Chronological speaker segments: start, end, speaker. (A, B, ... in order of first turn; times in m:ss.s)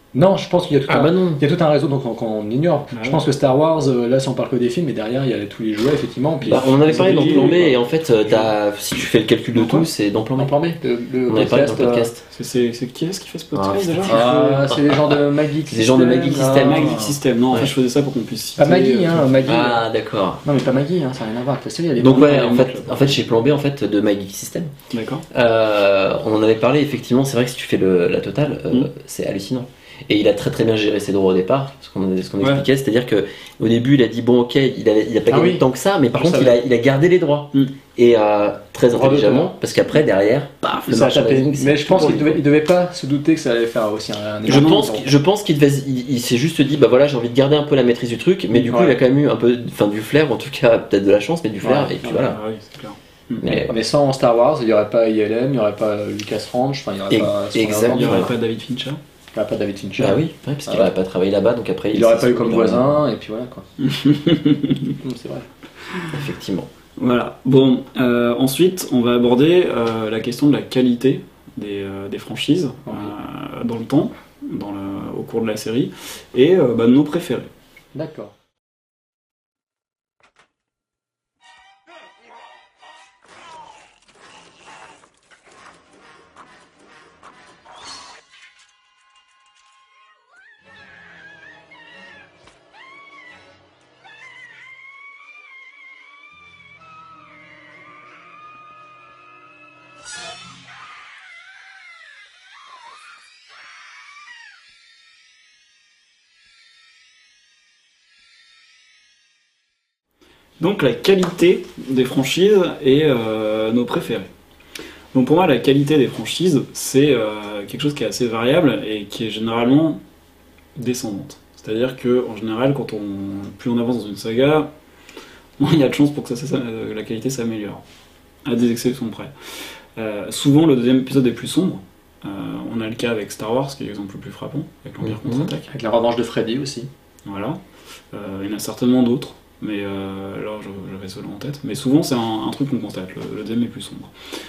0:00.1-0:07.7 A
0:00.9-0:01.4 B
0:02.9-0:03.2 C
0:06.4-0:10.5 B
0:06.5-0:08.5 C
0:10.4-0:12.1 A
0:11.3-0:12.2 B
0:12.3-0:14.5 C
0:13.5-0:17.7 B
0:14.0-0:17.1 A
0:16.5-0:19.4 C
0:18.6-0:19.8 A
0:19.4-0:20.4 B
0:20.4-0:22.6 A
0:22.0-0:24.7 B
0:22.2-0:23.2 C
0:24.9-0:25.2 C
0:25.3-0:42.4 B
0:35.3-0:35.6 A
0:36.1-0:36.6 A
0:38.9-0:39.6 A
0:40.9-0:45.0 A
0:44.4-0:52.4 B
0:48.5-0:49.0 A
0:51.6-0:52.2 A
0:52.0-0:53.5 C
0:53.4-0:53.8 B
0:53.7-0:58.3 A
0:57.1-0:58.3 B
0:57.9-0:59.0 C
0:59.3-1:00.9 A
1:00.0-1:03.0 B
1:01.9-1:03.6 A
1:03.8-1:04.9 C
1:05.0-1:05.4 A
1:06.1-1:06.7 B
1:07.0-1:17.5 C
1:12.8-1:13.1 A
1:17.9-1:18.3 A
1:50.6-1:54.3 C
1:55.1-2:00.0 C
2:00.8-2:04.7 C
2:05.6-2:07.8 C
2:08.4-2:15.7 C
2:15.0-2:15.5 B
2:15.7-2:16.9 A
2:17.2-2:17.6 C
2:18.1-2:24.1 C